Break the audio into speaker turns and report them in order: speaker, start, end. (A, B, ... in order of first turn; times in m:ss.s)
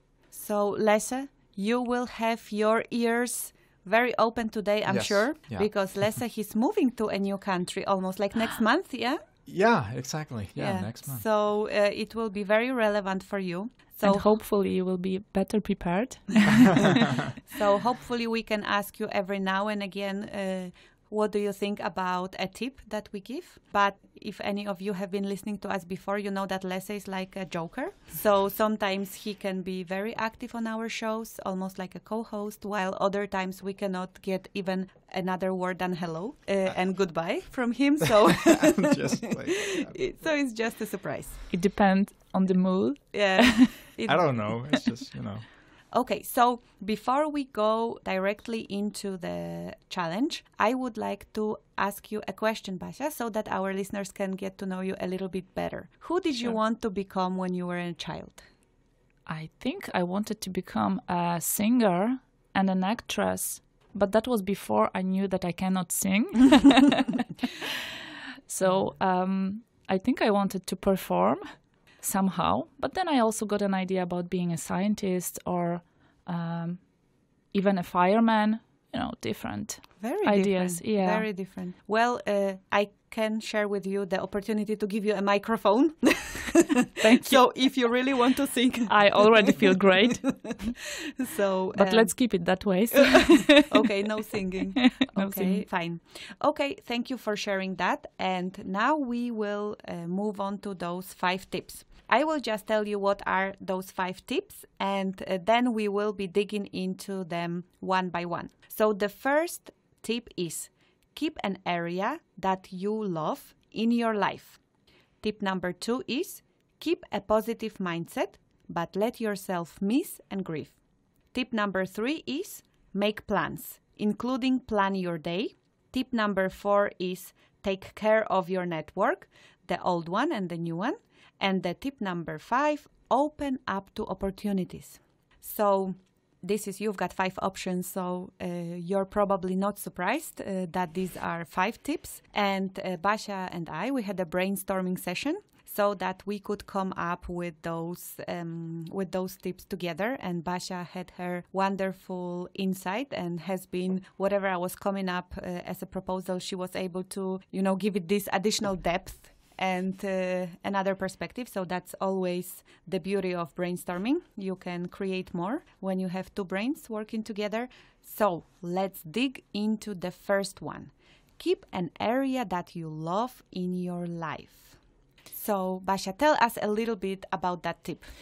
0:00.3-0:09.2 A
0:04.9-0:05.7 B
0:09.4-0:11.2 B
0:10.6-0:14.3 A
0:14.0-0:17.0 C
0:17.4-0:41.5 A
0:38.5-0:40.2 B
0:41.5-0:43.7 C
0:43.1-0:44.8 A
0:44.1-0:45.4 B
0:45.9-0:58.4 A
0:59.3-1:07.7 C
1:08.5-1:11.5 C
1:12.0-1:16.8 C
1:17.5-1:21.3 C
1:20.0-1:32.4 A
1:27.0-1:27.4 C
1:28.9-1:30.7 C
1:31.7-1:33.7 C
1:33.4-1:54.6 A
1:34.8-1:35.7 C
1:55.2-2:00.8 A
2:01.3-2:54.8 A
2:55.3-2:58.1 A